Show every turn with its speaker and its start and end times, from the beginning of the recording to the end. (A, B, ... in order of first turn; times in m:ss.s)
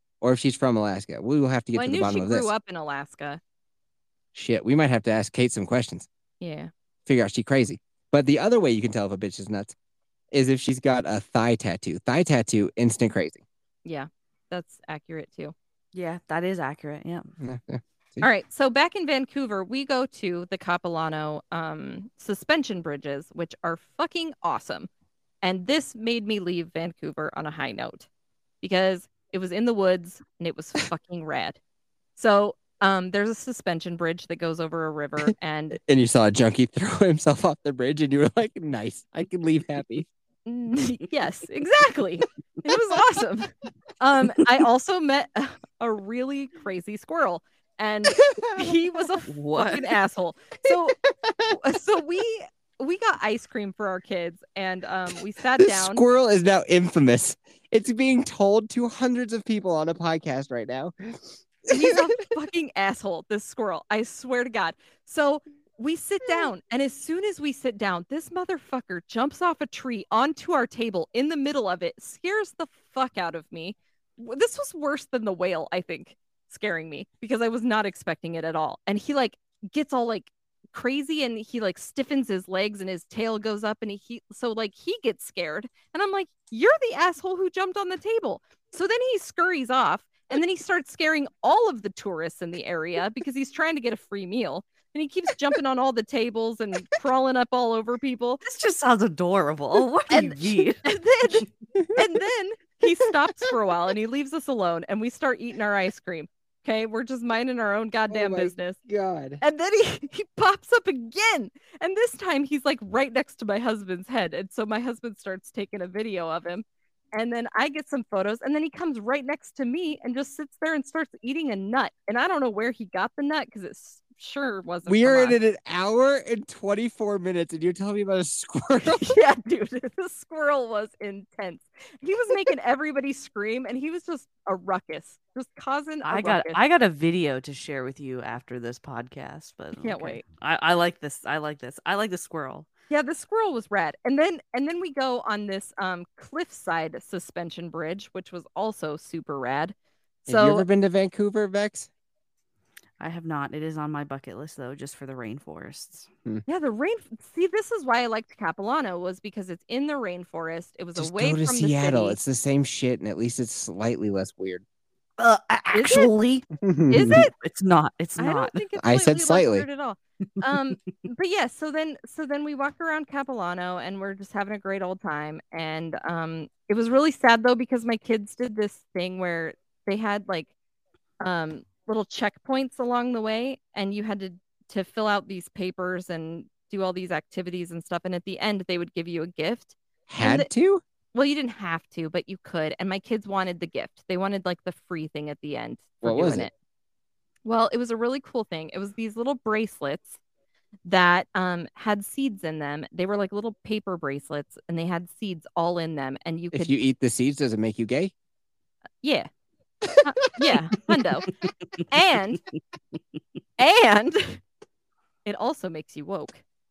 0:00.2-0:02.5 A
0:01.7-0:03.4 B
0:04.3-0:06.1 A
0:06.4-0:06.7 B
0:07.1-0:09.8 A
0:10.3-0:13.4 A
0:13.9-0:15.6 B
0:15.9-0:17.3 C
0:17.4-0:18.3 A
0:18.2-0:24.9 B
0:25.4-0:28.1 B
0:28.6-0:31.6 B
0:32.2-0:35.8 B
0:35.8-0:40.1 A
0:40.5-0:51.0 B
0:49.3-0:50.0 C
0:51.5-0:56.0 B
0:55.6-1:01.9 A
1:01.7-1:38.4 B
1:38.4-1:41.5 C
1:40.1-1:48.8 B
1:48.1-1:49.4 A
1:49.4-2:05.4 B
2:04.9-2:09.1 A
2:09.0-2:16.6 B
2:16.0-2:22.7 C
2:19.8-2:20.2 B
2:22.9-2:30.7 B
2:30.3-2:31.9 A
2:33.0-2:36.1 C
2:36.5-2:42.2 B
2:41.0-2:44.6 A
2:45.2-2:46.5 C
2:45.7-2:46.1 B
2:46.6-2:47.2 A
2:46.9-2:47.3 B
2:47.1-2:48.6 C
2:48.2-3:00.5 B
2:48.8-2:49.7 A
3:01.2-3:10.5 B
3:10.1-3:10.8 A
3:11.1-3:16.5 B
3:16.0-3:16.5 A
3:17.4-3:20.2 B
3:20.8-3:26.7 B
3:26.5-3:28.1 A
3:29.0-3:29.3 B
3:30.0-3:31.3 B
3:30.3-3:30.5 A
3:31.9-3:32.4 B
3:33.6-3:34.4 B
3:35.2-3:36.4 B